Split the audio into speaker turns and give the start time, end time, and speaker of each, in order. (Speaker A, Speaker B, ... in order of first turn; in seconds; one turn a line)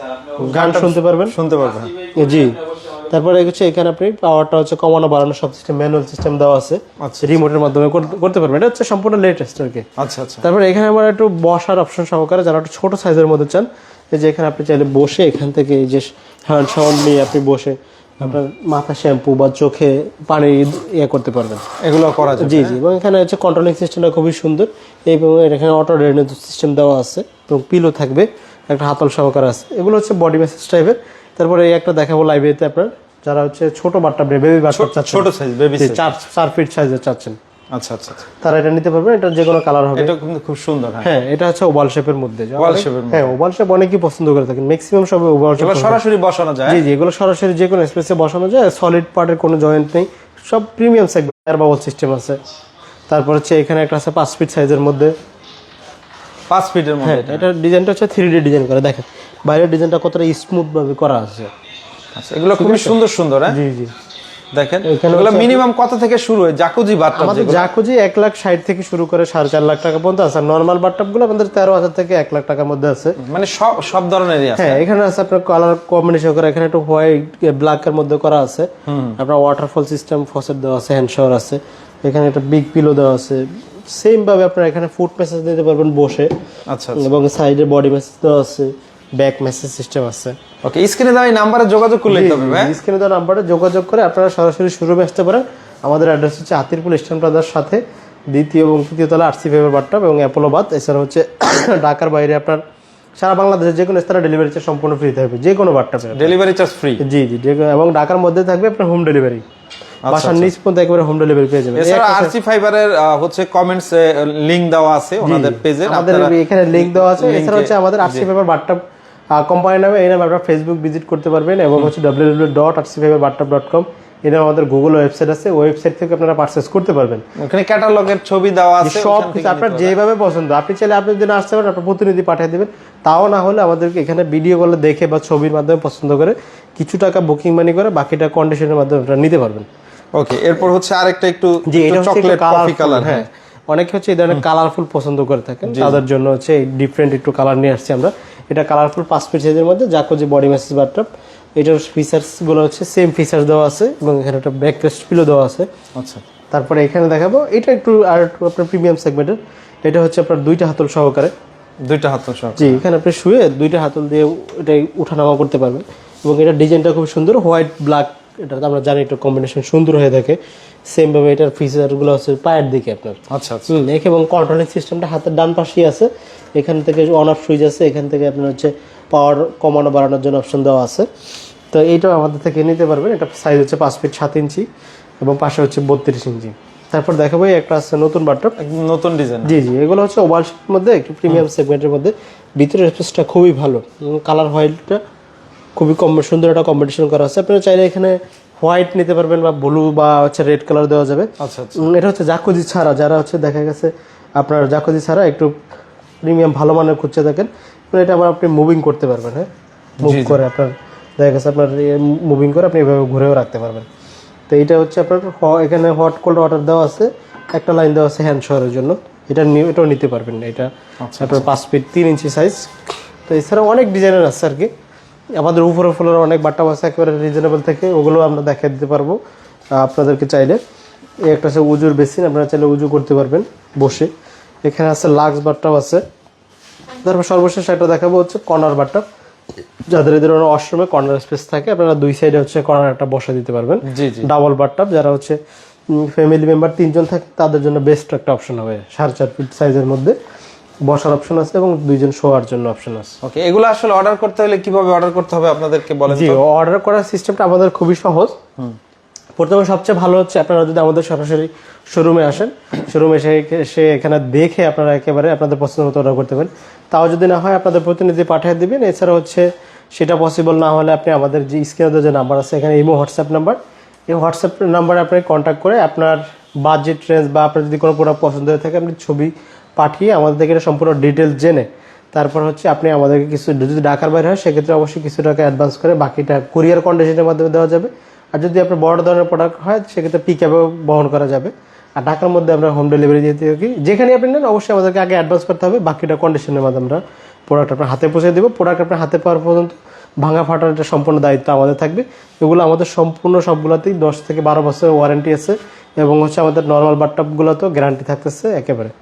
Speaker A: 0.4-1.4
Speaker B: 0.4-2.0
Speaker A: 2.1-9.9
Speaker B: 7.0-7.4
Speaker B: 10.0-10.5
Speaker A: 10.4-21.6
Speaker B: 21.8-22.8
Speaker A: 22.4-37.4
Speaker B: 34.7-36.1
Speaker B: 37.7-38.3
Speaker A: 38.4-40.1
Speaker B: 40.0-41.1
Speaker A: 41.0-46.0
Speaker B: 42.6-43.3
Speaker B: 45.6-46.8
Speaker A: 46.7-52.4
Speaker A: 53.1-55.1
Speaker B: 56.5-57.5
Speaker A: 57.0-61.5
Speaker B: 62.2-63.6
Speaker A: 62.6-63.0
Speaker A: 63.5-63.9
Speaker B: 64.5-67.7
Speaker A: 64.8-65.6
Speaker A: 67.1-73.2
Speaker B: 73.2-74.8
Speaker A: 74.6-86.3
Speaker B: 78.9-79.2
Speaker B: 86.7-87.1
Speaker A: 87.0-90.4
Speaker B: 90.6-92.8
Speaker A: 92.1-97.8
Speaker A: 98.3-102.6
Speaker A: 103.2-106.3
Speaker B: 106.1-107.0
Speaker A: 107.0-109.4
Speaker B: 110.1-110.5
Speaker A: 110.1-112.3
Speaker B: 111.8-118.2
Speaker A: 115.2-118.8
Speaker A: 119.3-127.2
Speaker B: 127.4-129.9
Speaker A: 128.8-139.7
Speaker B: 140.2-143.3
Speaker A: 141.7-155.7
Speaker B: 145.7-146.0
Speaker B: 156.0-156.2
Speaker A: 156.5-161.3
Speaker B: 161.8-162.8
Speaker A: 162.6-170.4
Speaker A: 170.9-173.2
Speaker B: 173.3-173.7
Speaker A: 173.7-181.1
Speaker A: 181.7-184.7
Speaker A: 185.2-188.6
Speaker B: 188.6-189.5
Speaker A: 189.4-195.0
Speaker A: 195.8-205.5
Speaker B: 201.4-201.8
Speaker A: 206.2-209.5
Speaker B: 210.0-210.4
Speaker A: 210.0-213.9
Speaker A: 214.5-222.7
Speaker B: 221.0-221.5
Speaker A: 223.3-224.7
Speaker A: 225.4-229.2
Speaker A: 229.8-230.6
Speaker A: 231.3-234.1
Speaker A: 234.7-236.0
Speaker A: 237.0-239.0
Speaker A: 239.9-245.4
Speaker B: 243.9-244.3
Speaker A: 245.9-250.2
Speaker A: 250.9-253.2
Speaker B: 253.2-256.4
Speaker A: 256.1-258.3
Speaker A: 259.4-273.6
Speaker A: 274.1-308.9